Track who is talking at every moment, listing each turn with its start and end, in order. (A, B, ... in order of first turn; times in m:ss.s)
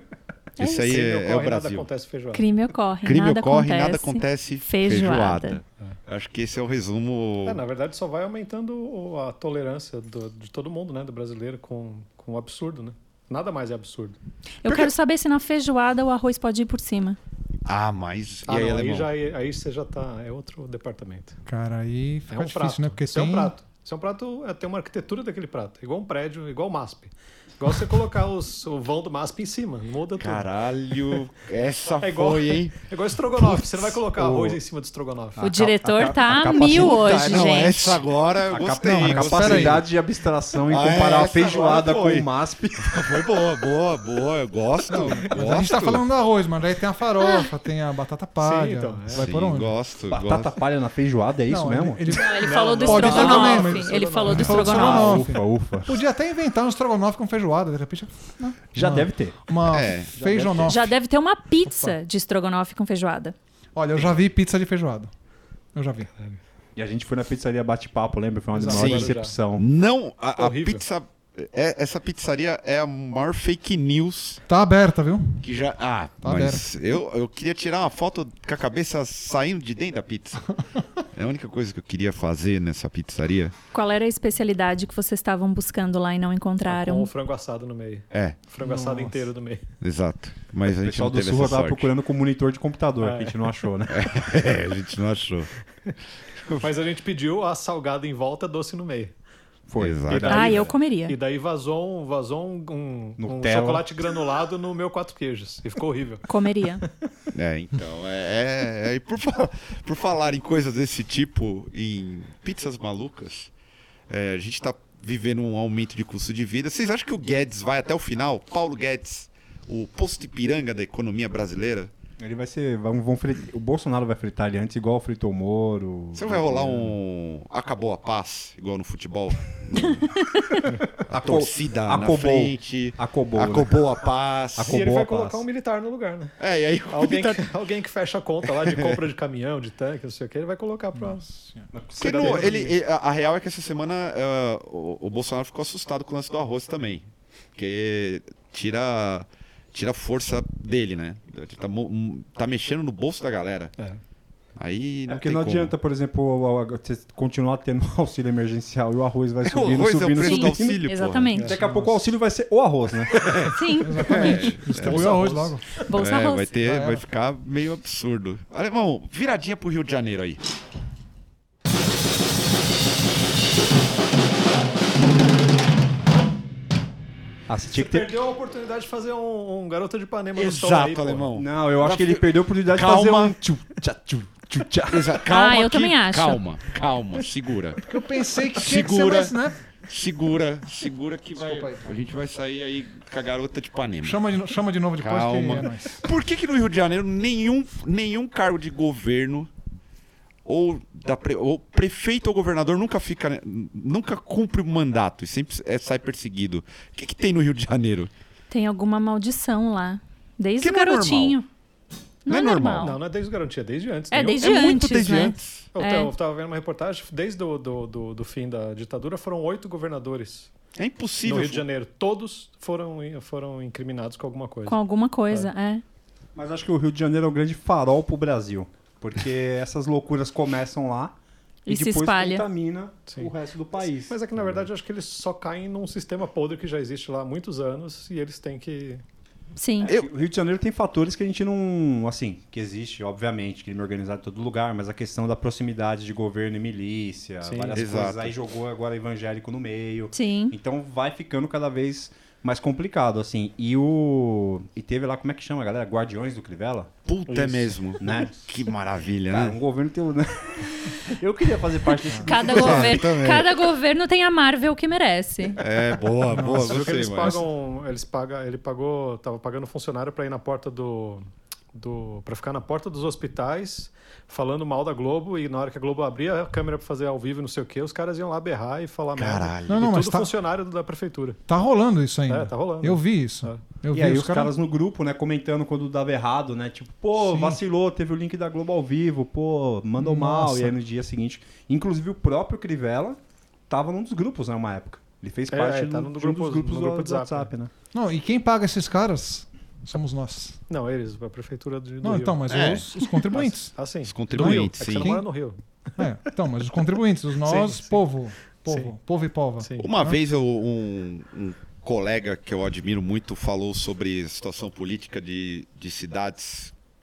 0:00.6-0:01.9 A
0:00.6-0:02.4 B
0:02.3-0:05.6 C
0:03.0-0:07.6 A
0:07.4-0:14.2 B
0:14.6-0:17.2 C
0:17.6-0:19.1 A
0:18.5-0:21.4 B
0:21.4-0:23.5 D
0:22.3-0:30.5 B
0:30.2-0:32.8 A
0:32.0-0:35.4 B
0:33.4-0:34.0 A
0:34.1-0:34.6 E
0:35.4-0:37.7 E
0:35.4-0:38.0 C
0:36.7-0:39.9 A
0:38.5-0:43.0 E
0:38.8-0:39.8 D
0:40.6-0:42.3 A
0:42.8-0:46.0 A
0:44.9-0:49.7 D
0:48.4-0:49.3 B
0:49.1-0:50.5 A
0:50.1-0:52.2 E
0:51.5-1:00.9 D
0:52.1-0:55.2 C
0:52.2-0:54.7 B
0:54.4-0:56.0 E
0:58.7-0:59.4 E
0:59.7-1:00.8 A
1:00.6-1:03.3 C
1:01.6-1:02.0 D
1:03.7-1:05.1 D
1:05.7-1:06.1 D
1:06.8-1:09.6 E
1:08.5-1:08.9 D
1:08.6-1:09.3 B
1:08.7-1:14.4 A
1:10.4-1:10.8 B
1:14.5-1:15.5 D
1:15.4-1:20.5 A
1:16.2-1:16.6 D
1:21.1-1:23.5 A
1:23.7-1:27.1 C
1:26.7-1:29.6 B
1:28.1-1:28.4 A
1:28.6-1:29.3 D
1:29.8-1:31.9 A
1:30.7-1:34.0 E
1:33.0-1:33.4 B
1:33.9-1:35.5 A
1:36.4-1:36.7 A
1:36.5-1:39.1 B
1:39.7-1:40.7 E
1:39.8-1:40.6 A
1:40.1-1:46.3 B
1:40.3-1:41.2 C
1:43.2-1:43.9 E
1:46.3-1:46.8 C
1:47.3-1:53.5 A
1:54.1-2:01.9 A
2:02.2-2:07.0 E
2:06.1-2:10.2 A
2:10.3-2:10.6 C
2:11.0-2:14.8 A
2:11.1-2:13.7 E
2:14.6-2:15.4 E
2:14.6-2:16.4 B
2:16.4-2:17.5 A
2:16.9-2:21.2 B
2:18.6-2:19.0 A
2:20.9-2:21.7 D
2:21.7-2:22.7 E
2:22.0-2:33.7 A
2:22.0-2:22.7 B
2:34.6-2:35.7 A
2:35.1-2:43.3 E
2:39.4-2:41.3 A
2:40.1-2:41.6 C
2:41.3-2:41.6 B
2:41.5-2:42.0 D
2:43.1-2:45.3 A
2:43.5-2:44.5 C
2:43.8-2:45.8 D
2:44.7-2:45.6 B
2:45.8-2:46.5 C
2:45.9-2:50.4 A
2:46.6-2:47.0 D
2:57.5-2:58.1 E
2:57.7-3:01.3 B
3:00.3-3:03.4 A
3:01.3-3:05.2 E
3:04.9-3:07.8 A
3:05.2-3:06.4 C
3:07.8-3:09.6 D
3:08.6-3:09.3 A
3:09.8-3:14.2 A
3:11.4-3:12.0 D
3:14.0-3:16.0 D
3:15.0-3:19.5 A
3:20.4-3:28.1 A
3:28.5-3:31.5 C
3:30.6-3:31.4 A
3:32.2-3:33.0 C
3:32.3-3:33.0 A
3:32.8-3:34.8 B
3:34.1-3:36.1 C
3:34.4-3:35.7 A
3:35.7-3:40.5 B
3:40.8-3:41.6 A
3:41.2-3:44.8 B
3:44.6-3:45.8 C
3:46.3-3:51.2 E
3:51.6-3:52.4 C
3:51.7-3:54.7 E
3:54.1-3:59.0 B
3:59.6-3:59.9 C
3:59.8-4:16.9 E
4:07.4-4:07.8 B
4:07.7-4:08.3 A
4:10.1-4:10.6 C
4:17.0-4:19.6 A
4:17.3-4:18.2 B
4:18.0-4:18.3 E
4:19.3-4:23.1 E
4:22.1-4:22.4 D
4:22.2-4:25.6 C
4:22.4-4:23.5 A
4:25.6-4:27.4 A
4:26.3-4:27.4 D
4:26.5-4:41.4 B
4:39.1-4:39.8 A
4:39.7-4:40.3 D
4:41.5-4:44.5 D
4:42.3-4:43.6 B
4:43.9-4:57.7 E
4:47.1-4:47.6 D
4:50.0-4:50.7 D
4:55.5-4:57.5 B
4:57.9-5:00.6 D
5:00.7-5:06.0 B
5:02.0-5:03.8 D
5:02.5-5:02.9 A
5:04.0-5:05.2 A
5:04.3-5:05.3 D
5:06.0-5:10.2 D
5:07.4-5:08.0 B
5:08.6-5:08.9 B
5:09.6-5:09.9 B
5:09.8-5:16.7 A